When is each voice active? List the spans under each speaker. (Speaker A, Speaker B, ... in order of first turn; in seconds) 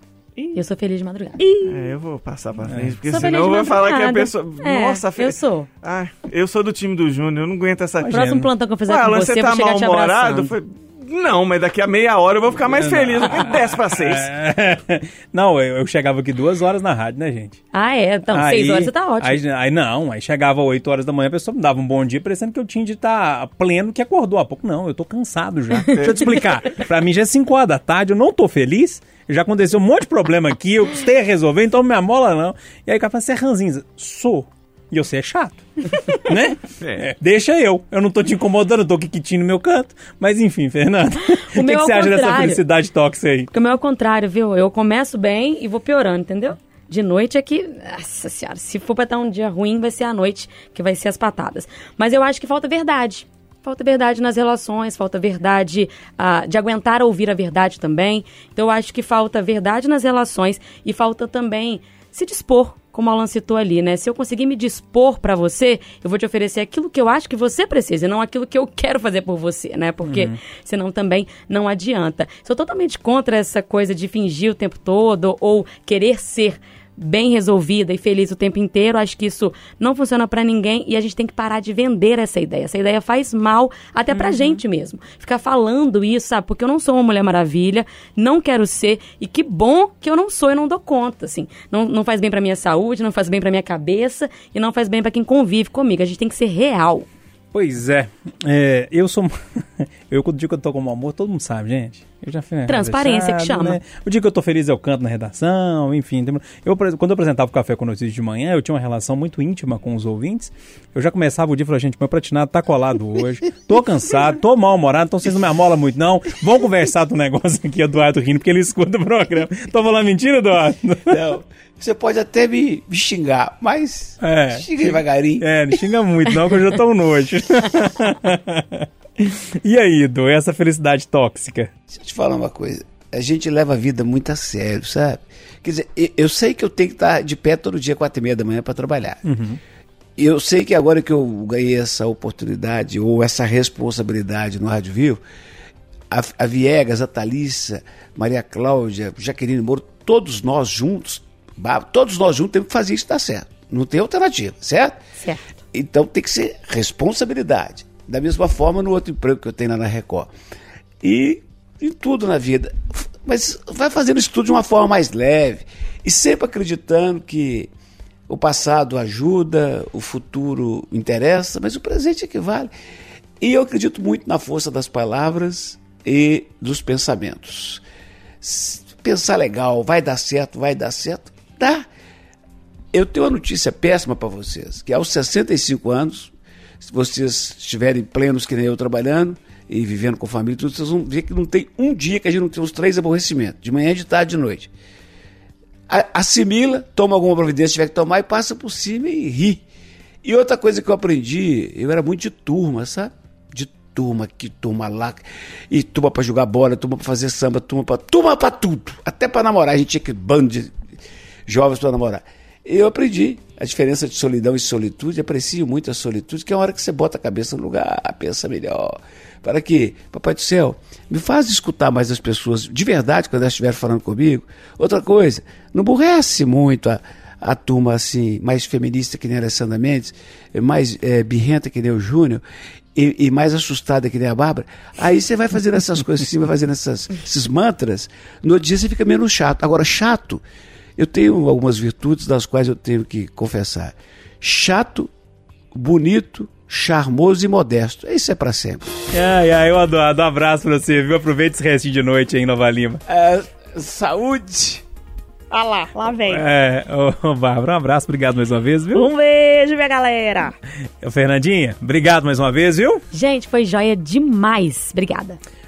Speaker A: 0.5-1.4, 3.0-5.7, 8.0-10.5, 17.7-19.4, 41.5-42.6, 43.5-97.1, 102.7-103.8, 263.1-265.4
Speaker B: 1.4-1.9, 84.2-84.6, 255.5-256.4, 258.9-260.6
Speaker C: 1.6-14.3, 25.9-26.6, 36.8-37.0
Speaker D: 2.7-3.0, 12.7-17.6, 18.3-43.5, 70.0-70.4, 97.5-121.2, 124.2-124.8, 125.4-131.7, 139.2-139.6, 249.1-253.0, 256.3-259.1, 261.0-263.0
Speaker E: 121.1-125.8, 131.9-139.2, 140.2-145.2, 146.1-155.0, 155.7-160.3, 161.0-167.7, 168.3-172.7, 173.4-177.8, 178.4-181.9, 182.9-194.7, 195.9-199.6, 200.2-210.7, 211.5-232.4, 232.9-240.4, 241.0-245.1, 245.7-249.0, 253.1-254.8